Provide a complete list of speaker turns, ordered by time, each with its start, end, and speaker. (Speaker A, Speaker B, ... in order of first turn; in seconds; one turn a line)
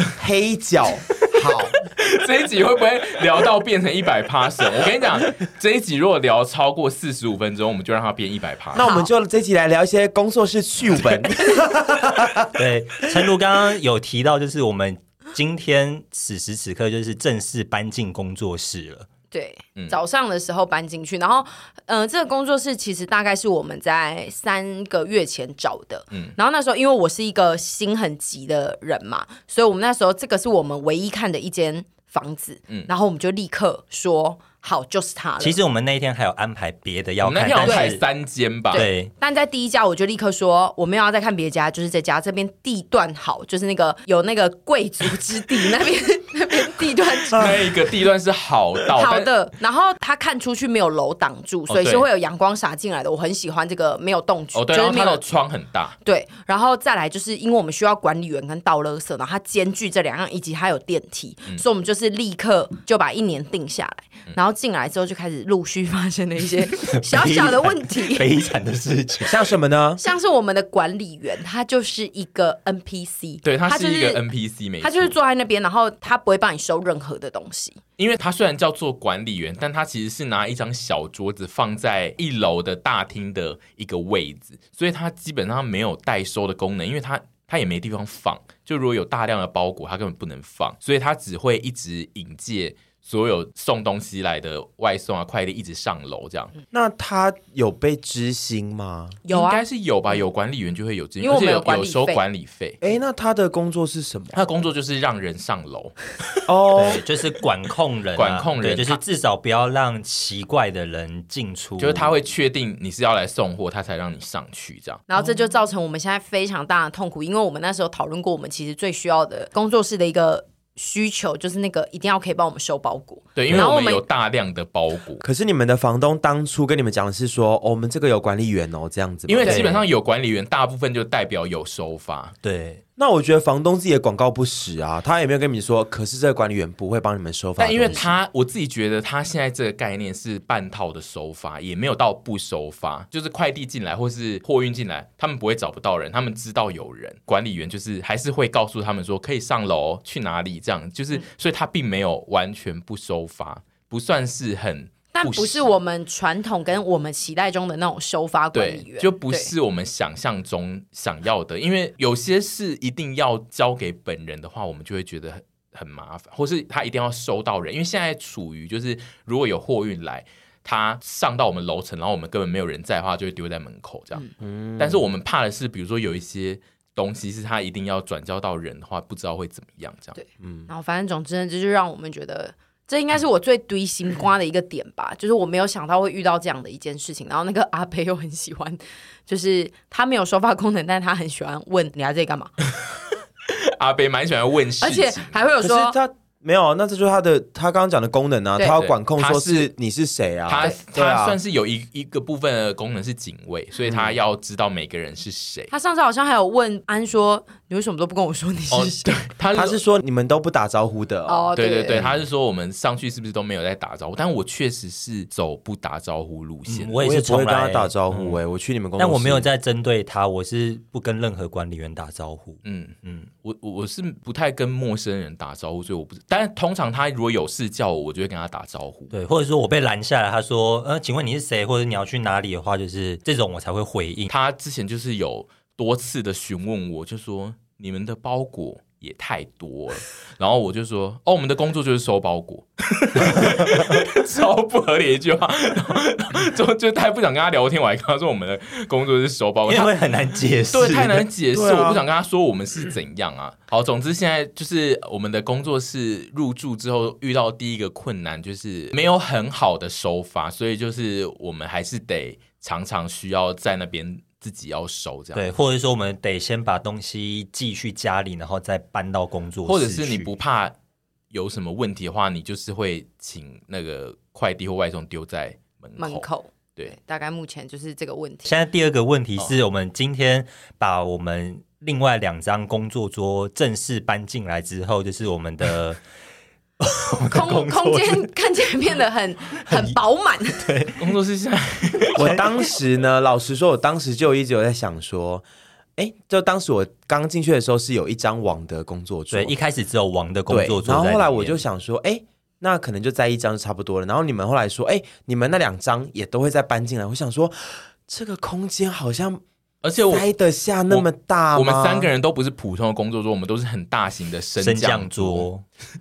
Speaker A: 0.2-1.8
Speaker B: 1.8-8.9
Speaker A: 8.7-12.5
Speaker C: 8.8-9.1
Speaker D: 12.6-19.1
Speaker C: 19.3-35.6
Speaker D: 35.4-38.0
Speaker B: 37.2-38.9
Speaker C: 37.6-38.0
Speaker D: 38.7-39.1
Speaker C: 38.7-47.6
Speaker B: 47.3-49.3
Speaker C: 48.9-55.2
Speaker B: 51.7-52.1
Speaker B: 54.5-56.0
Speaker C: 56.0-68.3
Speaker D: 67.0-69.5
Speaker A: 69.3-70.0
Speaker C: 70.0-74.2
Speaker B: 73.4-75.2
Speaker C: 74.8-77.8
Speaker B: 78.0-96.5
Speaker A: 96.7-99.2
Speaker C: 99.2-99.6
Speaker B: 99.3-102.8
Speaker C: 101.2-102.2
Speaker A: 102.8-104.5
Speaker B: 104.3-106.0
Speaker A: 106.5-107.0
Speaker D: 106.8-112.1
Speaker B: 108.2-109.0
Speaker B: 111.8-115.1
Speaker C: 115.1-124.0
Speaker B: 123.4-125.2
Speaker A: 125.2-129.5
Speaker B: 129.3-132.3
Speaker D: 129.5-129.8
Speaker D: 132.4-132.8
Speaker A: 133.0-138.2
Speaker B: 137.6-155.7
Speaker C: 155.1-159.5
Speaker B: 158.5-180.2
Speaker A: 174.4-175.0
Speaker C: 180.2-192.5
Speaker A: 180.4-180.7
Speaker B: 193.5-195.3
Speaker C: 194.8-196.0
Speaker A: 195.6-201.4
Speaker B: 198.8-199.7
Speaker B: 200.5-205.7
Speaker C: 205.7-209.2
Speaker B: 208.7-209.8
Speaker A: 209.5-212.1
Speaker C: 211.3-212.1
Speaker B: 211.6-217.0
Speaker D: 216.7-218.3
Speaker A: 217.0-219.5
Speaker D: 219.0-223.3
Speaker B: 222.6-229.1
Speaker D: 229.1-234.3
Speaker B: 234.3-249.9
Speaker D: 243.4-243.8
Speaker D: 249.7-251.3
Speaker B: 250.7-265.5
Speaker A: 251.5-252.0
Speaker D: 265.4-270.3
Speaker B: 269.7-270.8
Speaker B: 271.3-276.9
Speaker C: 276.0-278.6
Speaker D: 278.4-286.0
Speaker D: 286.8-288.3
Speaker C: 287.3-290.7
Speaker D: 289.7-290.0
Speaker D: 290.6-291.1
Speaker B: 291.0-292.4
Speaker D: 292.1-292.4
Speaker A: 292.2-295.4
Speaker A: 296.0-299.6
Speaker D: 299.3-301.6
Speaker A: 300.5-309.4
Speaker B: 309.8-310.3
Speaker A: 310.1-312.1
Speaker B: 310.9-315.5
Speaker D: 314.6-315.6